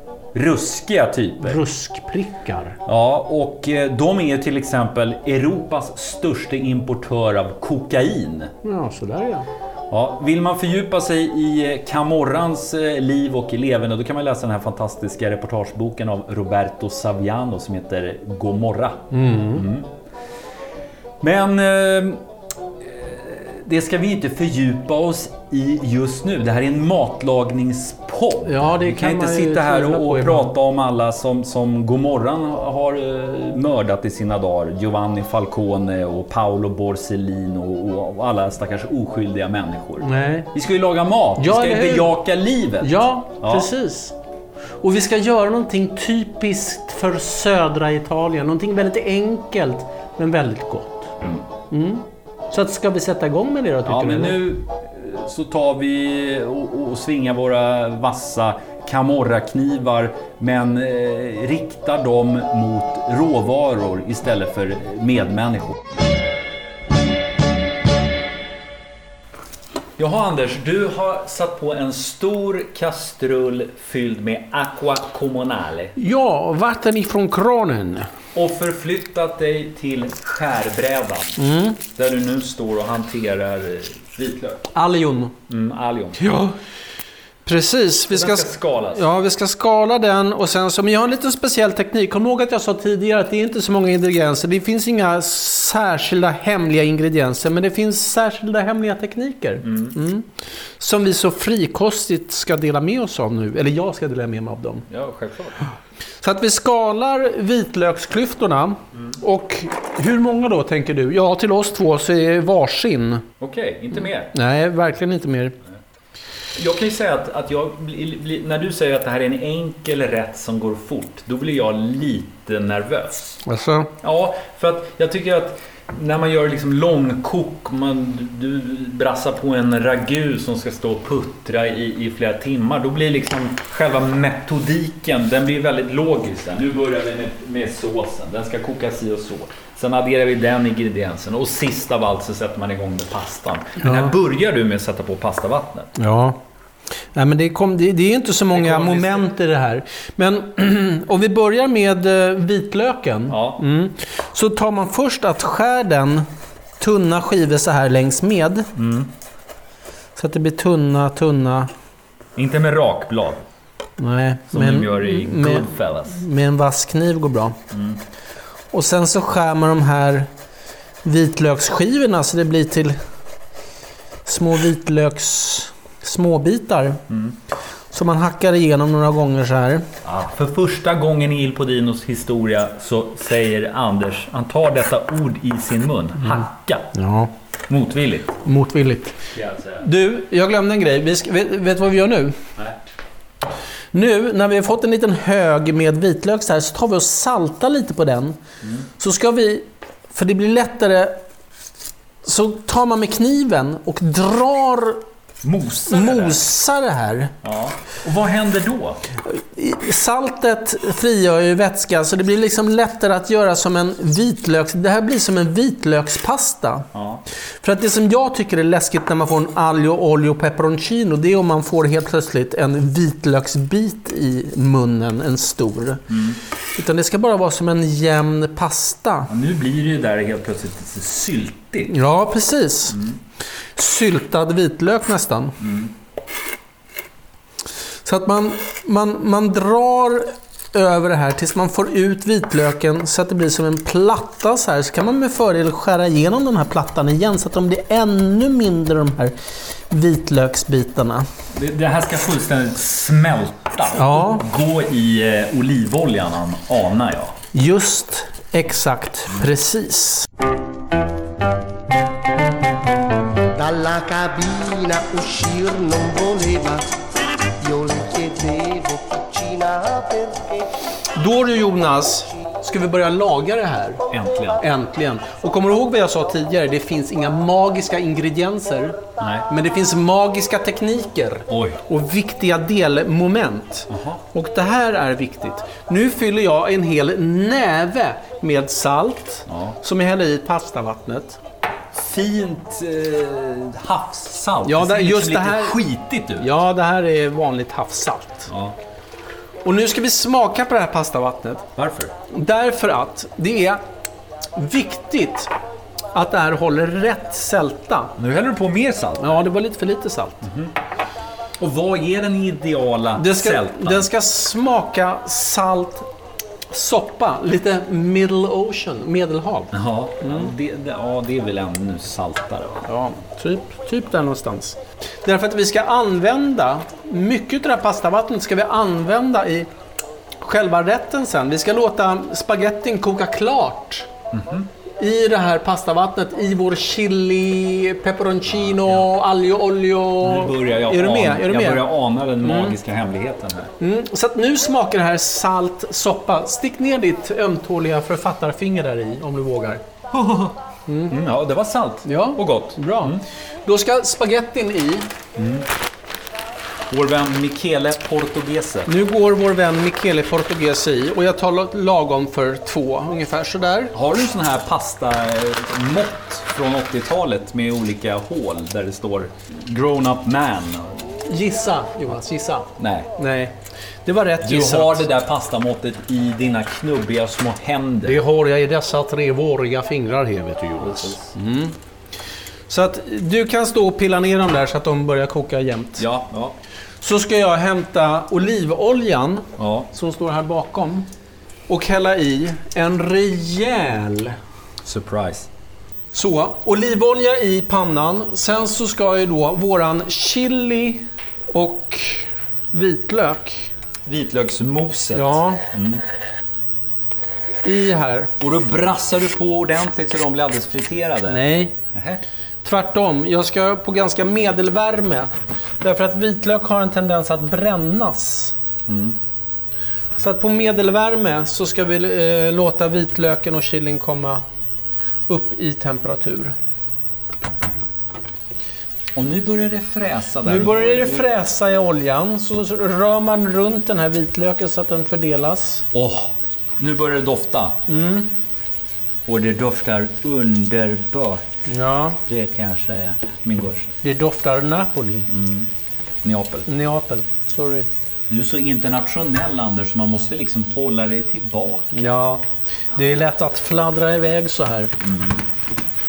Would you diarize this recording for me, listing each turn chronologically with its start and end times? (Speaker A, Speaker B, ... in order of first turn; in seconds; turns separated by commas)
Speaker A: 0.3-1.6, Speaker B: 1.4-2.8, Speaker A: 2.9-8.5, Speaker B: 8.6-9.5, Speaker A: 9.9-19.9, Speaker B: 19.1-19.6, Speaker A: 21.2-22.2, Speaker A: 22.8-43.7, Speaker B: 28.4-30.5, Speaker B: 40.0-40.5, Speaker B: 41.4-42.1, Speaker B: 42.8-44.1, Speaker B: 44.8-51.1, Speaker B: 51.7-54.4, Speaker A: 53.9-65.8, Speaker A: 70.0-75.9, Speaker B: 76.0-78.1, Speaker A: 78.3-81.4, Speaker B: 81.4-81.8, Speaker A: 81.9-84.7, Speaker B: 84.7-85.3, Speaker A: 85.5-86.2, Speaker B: 86.2-86.5, Speaker B: 87.5-100.3, Speaker A: 88.1-89.0, Speaker A: 99.6-99.9, Speaker B: 100.8-104.8, Speaker A: 104.9-105.6, Speaker B: 106.2-113.2, Speaker A: 113.4-114.3, Speaker B: 114.3-115.6, Speaker A: 116.5-123.4, Speaker B: 123.4-123.9, Speaker A: 124.0-145.9, Speaker B: 143.8-144.1, Speaker B: 146.0-146.4, Speaker B: 147.1-156.3, Speaker A: 148.5-149.3, Speaker A: 153.3-153.6, Speaker B: 156.8-158.7, Speaker A: 158.7-159.1, Speaker B: 160.2-161.7, Speaker A: 162.3-163.4, Speaker B: 164.0-167.6, Speaker A: 164.5-166.2, Speaker A: 167.7-168.0, Speaker B: 168.7-170.3, Speaker B: 171.0-173.0, Speaker B: 174.2-177.0, Speaker A: 177.1-177.3, Speaker B: 177.9-179.9, Speaker A: 180.0-186.9, Speaker B: 186.9-187.3, Speaker A: 187.7-188.4, Speaker B: 188.4-189.2, Speaker A: 189.3-189.8, Speaker B: 189.8-192.4, Speaker B: 193.9-198.4, Speaker B: 199.0-201.2, Speaker B: 202.2-205.0, Speaker A: 205.4-206.4, Speaker B: 205.9-207.3, Speaker A: 207.4-209.0, Speaker B: 209.2-216.9, Speaker A: 216.9-217.2, Speaker B: 217.6-226.1, Speaker A: 226.1-226.4, Speaker B: 226.8-229.3, Speaker A: 229.3-231.9, Speaker B: 231.9-233.0, Speaker A: 232.9-233.2, Speaker B: 233.8-235.6, Speaker A: 235.6-235.9, Speaker B: 238.0-249.3, Speaker B: 249.9-251.3, Speaker A: 251.5-257.4, Speaker B: 253.9-254.4, Speaker B: 257.5-260.3, Speaker C: 263.5-267.0, Speaker C: 267.6-270.7, Speaker B: 271.1-274.0, Speaker A: 274.1-274.6, Speaker B: 274.6-291.4, Speaker A: 279.2-279.5, Speaker A: 281.5-281.8, Speaker A: 283.9-284.2, Speaker A: 289.5-289.8, Speaker A: 291.9-296.5, Speaker B: 294.6-295.8, Speaker B: 296.4-298.5, Speaker A: 298.5-298.8, Speaker B: 299.6-301.6, Speaker A: 301.8-302.1, Speaker B: 302.3-303.8, Speaker B: 304.5-305.5, Speaker B: 306.1-308.1, Speaker A: 308.2-309.4, Speaker B: 309.2-310.4, Speaker A: 310.4-310.7, Speaker A: 311.6-314.1, Speaker B: 313.1-316.1, Speaker B: 316.7-320.5, Speaker A: 319.7-322.9, Speaker B: 322.9-329.7, Speaker B: 330.4-334.1, Speaker A: 334.3-334.7, Speaker B: 335.0-341.9, Speaker A: 338.5-339.1, Speaker A: 340.2-343.7, Speaker B: 342.4-342.8, Speaker B: 343.8-349.8, Speaker A: 350.1-350.6, Speaker B: 350.9-351.1, Speaker A: 351.1-353.2, Speaker B: 352.0-355.1, Speaker A: 355.4-355.7, Speaker A: 356.9-358.9, Speaker B: 358.9-363.9, Speaker A: 363.9-371.2, Speaker B: 371.2-375.0, Speaker A: 372.8-373.1, Speaker A: 374.4-378.2, Speaker B: 378.0-381.8, Speaker A: 380.8-381.3, Speaker B: 382.7-386.1, Speaker A: 386.0-386.6, Speaker B: 387.0-391.1, Speaker A: 389.6-389.9, Speaker B: 391.7-394.4, Speaker A: 394.8-395.5, Speaker B: 396.1-403.7, Speaker A: 404.1-406.0, Speaker B: 405.1-405.6, Speaker B: 407.6-408.3, Speaker A: 408.4-412.2, Speaker B: 411.3-411.7, Speaker B: 412.6-418.5, Speaker A: 418.9-419.2, Speaker B: 420.1-424.4, Speaker B: 425.3-426.5, Speaker A: 429.1-431.2, Speaker B: 430.4-435.9, Speaker A: 435.9-437.8, Speaker B: 437.9-438.3, Speaker A: 439.2-441.5, Speaker B: 441.7-442.2, Speaker A: 442.2-443.9, Speaker B: 444.0-445.3, Speaker A: 445.3-445.7, Speaker A: 446.2-446.7, Speaker B: 446.7-447.9, Speaker A: 448.3-451.9, Speaker B: 451.9-454.9, Speaker A: 455.0-455.4